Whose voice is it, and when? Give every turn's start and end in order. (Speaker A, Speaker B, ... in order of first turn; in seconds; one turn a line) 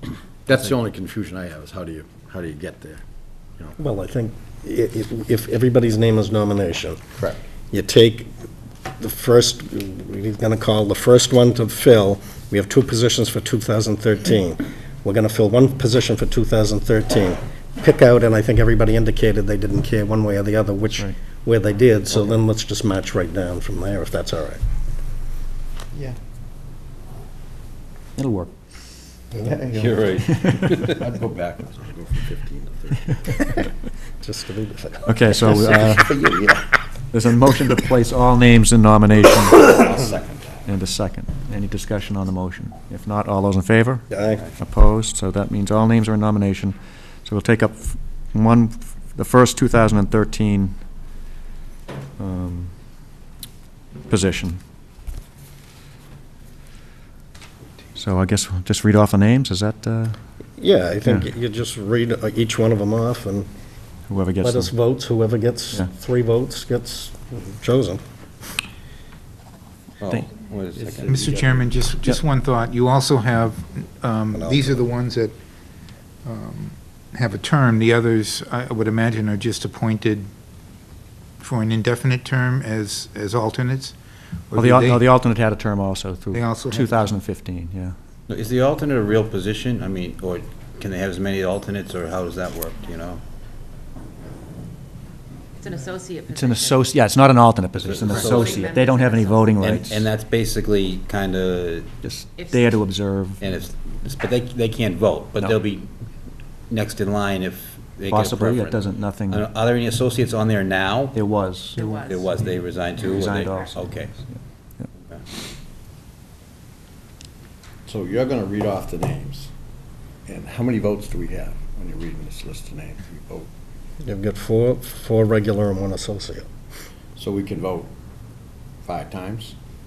Speaker A: 0.5-3.0
Speaker B: 3.8-7.0
Speaker B: 7.7-8.3
Speaker B: 9.0-24.6
Speaker C: 28.2-28.5
Speaker B: 29.3-29.6
Speaker A: 29.4-29.9
Speaker D: 29.7-30.9
Speaker C: 30.2-30.5
Speaker A: 30.8-33.2
Speaker B: 34.2-35.6
Speaker C: 35.1-36.2
Speaker A: 35.5-36.6
Speaker C: 37.1-39.7
Speaker A: 39.6-40.6
Speaker C: 40.7-44.1
Speaker B: 44.1-44.4
Speaker C: 44.6-50.7
Speaker C: 52.2-52.7
Speaker C: 54.1-54.6
Speaker C: 58.0-60.2
Speaker B: 60.6-63.5
Speaker C: 64.1-64.7
Speaker B: 64.4-68.0
Speaker D: 70.0-71.2
Speaker A: 70.7-71.8
Speaker E: 71.1-75.4
Speaker B: 74.3-74.8
Speaker E: 76.2-80.3
Speaker E: 81.4-84.0
Speaker E: 84.5-85.0
Speaker C: 84.6-88.0
Speaker E: 86.3-86.8
Speaker D: 88.3-93.2
Speaker F: 95.6-96.8
Speaker C: 96.3-100.1
Speaker D: 97.8-98.7
Speaker F: 98.1-99.6
Speaker D: 99.6-101.9
Speaker C: 102.0-103.4
Speaker F: 102.3-102.8
Speaker D: 103.4-106.0
Speaker D: 106.7-111.2
Speaker C: 108.1-109.5
Speaker C: 111.1-112.0
Speaker F: 111.8-112.4
Speaker D: 111.9-114.1
Speaker C: 112.8-114.9
Speaker A: 117.9-119.5
Speaker A: 120.3-123.5
Speaker B: 124.0-126.5
Speaker A: 127.2-127.9
Speaker A: 128.8-129.6